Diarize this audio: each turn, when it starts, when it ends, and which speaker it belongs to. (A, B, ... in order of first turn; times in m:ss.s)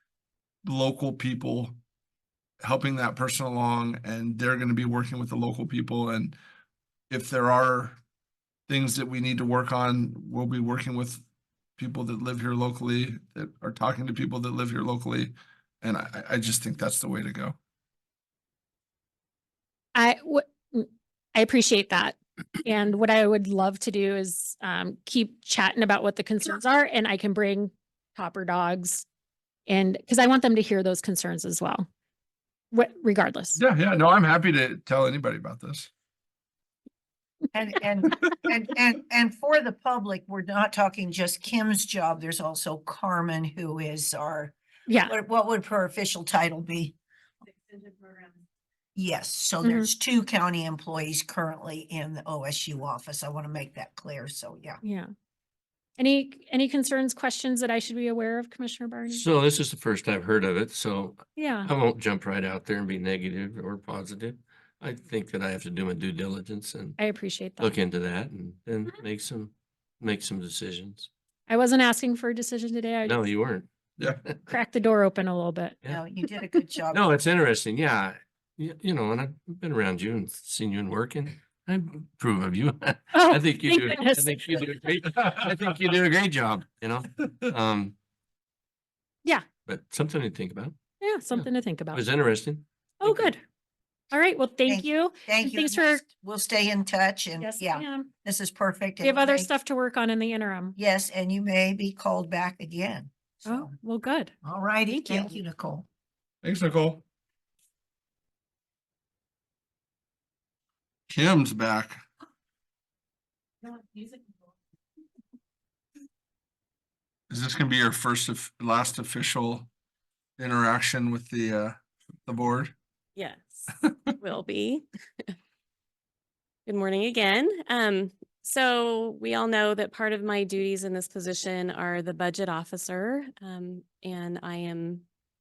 0:00.6-0:01.7 A
0:02.6-0:06.4 A
0:07.1-0:08.0 A
0:08.7-0:11.2 A
0:11.8-0:17.6 A
0:19.9-0:29.0 B
0:29.7-0:31.8 B
0:32.7-0:33.6 B
0:33.6-0:35.9 A
0:37.5-0:47.0 C
0:44.9-0:45.1 B
0:47.8-0:48.2 B
0:48.9-0:54.8 C
0:49.6-0:49.9 B
0:54.8-0:55.1 B
0:56.0-0:59.2 B
0:59.1-1:07.0 D
1:01.4-1:01.7 B
1:07.0-1:07.7 B
1:07.6-1:11.1 D
1:11.5-1:13.3 B
1:13.0-1:13.7 D
1:14.5-1:15.8 B
1:15.9-1:17.0 C
1:16.9-1:27.9 D
1:23.1-1:24.6 B
1:29.6-1:30.8 D
1:31.0-1:32.0 B
1:31.3-1:33.2 D
1:33.0-1:33.4 B
1:34.1-1:36.0 B
1:34.6-1:39.5 C
1:37.4-1:38.1 B
1:39.0-1:40.7 B
1:40.8-1:43.7 C
1:43.5-1:44.3 B
1:44.4-1:45.9 C
1:44.9-1:45.3 B
1:46.4-1:47.0 A
1:51.1-1:52.0 A
1:53.6-1:54.3 B
1:57.3-1:59.7 A
2:00.4-2:02.7 A
2:03.2-2:05.3 E
2:06.6-2:15.0 E